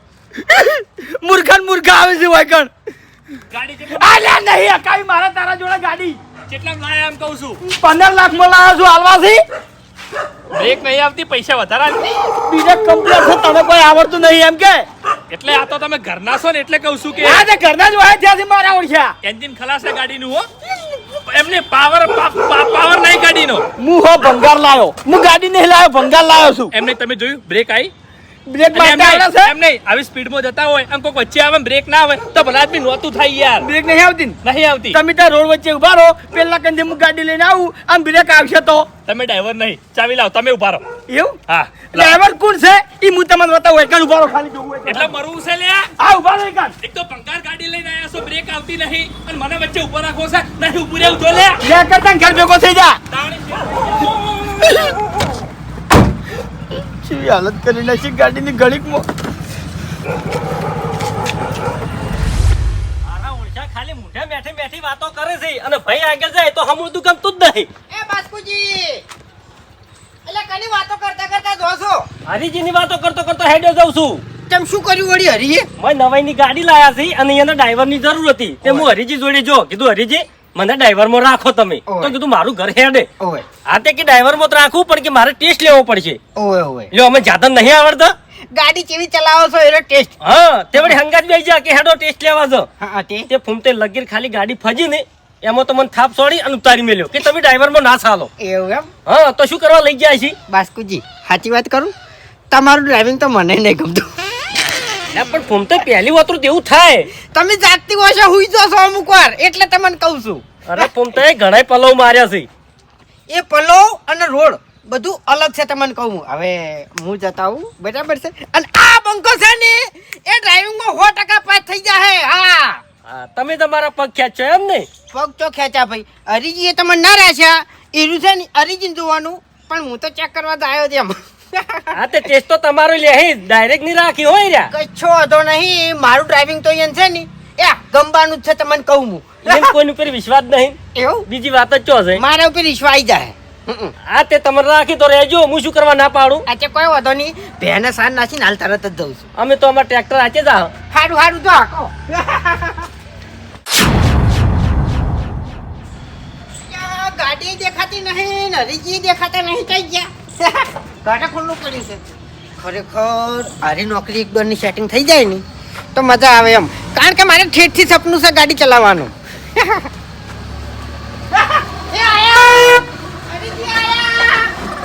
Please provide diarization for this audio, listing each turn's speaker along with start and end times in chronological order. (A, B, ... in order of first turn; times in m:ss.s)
0:00.4-0:02.7 A
0:03.5-0:04.2 B
0:03.9-0:06.2 A
0:06.5-0:07.6 B
0:07.6-0:09.4 A
0:10.6-0:12.0 B
0:12.4-0:14.9 A
0:15.3-0:17.5 B
0:17.2-0:19.2 A
0:19.2-0:20.4 B
0:21.3-0:23.6 B
0:23.8-0:26.7 A
0:26.7-0:27.9 B
0:28.5-0:29.6 A
0:28.8-0:33.6 B
0:33.6-0:34.4 A
0:34.4-0:35.0 B
0:34.9-0:38.9 A
0:39.1-0:40.8 B
0:41.1-0:41.4 A
0:41.5-0:42.1 B
0:41.9-0:45.1 A
0:44.9-0:45.9 B
0:46.0-0:46.8 A
0:46.8-0:51.6 B
0:51.6-0:53.0 A
0:57.0-0:59.0 A
1:03.0-1:07.7 C
1:07.9-1:09.0 D
1:10.3-1:12.1 D
1:12.3-1:14.2 C
1:14.5-1:15.7 D
1:15.8-1:23.1 C
1:21.9-1:22.2 D
1:23.2-1:23.4 D
1:23.7-1:26.2 C
1:26.4-1:26.9 D
1:26.9-1:28.1 C
1:28.5-1:30.1 D
1:30.2-1:32.7 C
1:32.8-1:33.3 D
1:33.3-1:38.3 C
1:38.4-1:38.9 D
1:39.1-1:40.4 C
1:40.5-1:41.9 D
1:42.5-1:44.1 D
1:45.1-1:47.1 C
1:47.3-1:50.9 D
1:50.7-1:52.5 C
1:53.3-2:02.8 D
2:03.1-2:04.9 C
2:05.1-2:12.0 D
2:11.9-2:14.7 C
2:14.7-2:19.7 D
2:19.4-2:22.2 C
2:21.0-2:21.2 D
2:22.2-2:23.9 D
2:24.1-2:26.5 C
2:26.5-2:29.3 D
2:29.4-2:30.7 C
2:30.9-2:32.9 D
2:36.7-2:42.0 D
2:42.6-2:49.9 D
2:51.3-2:54.5 D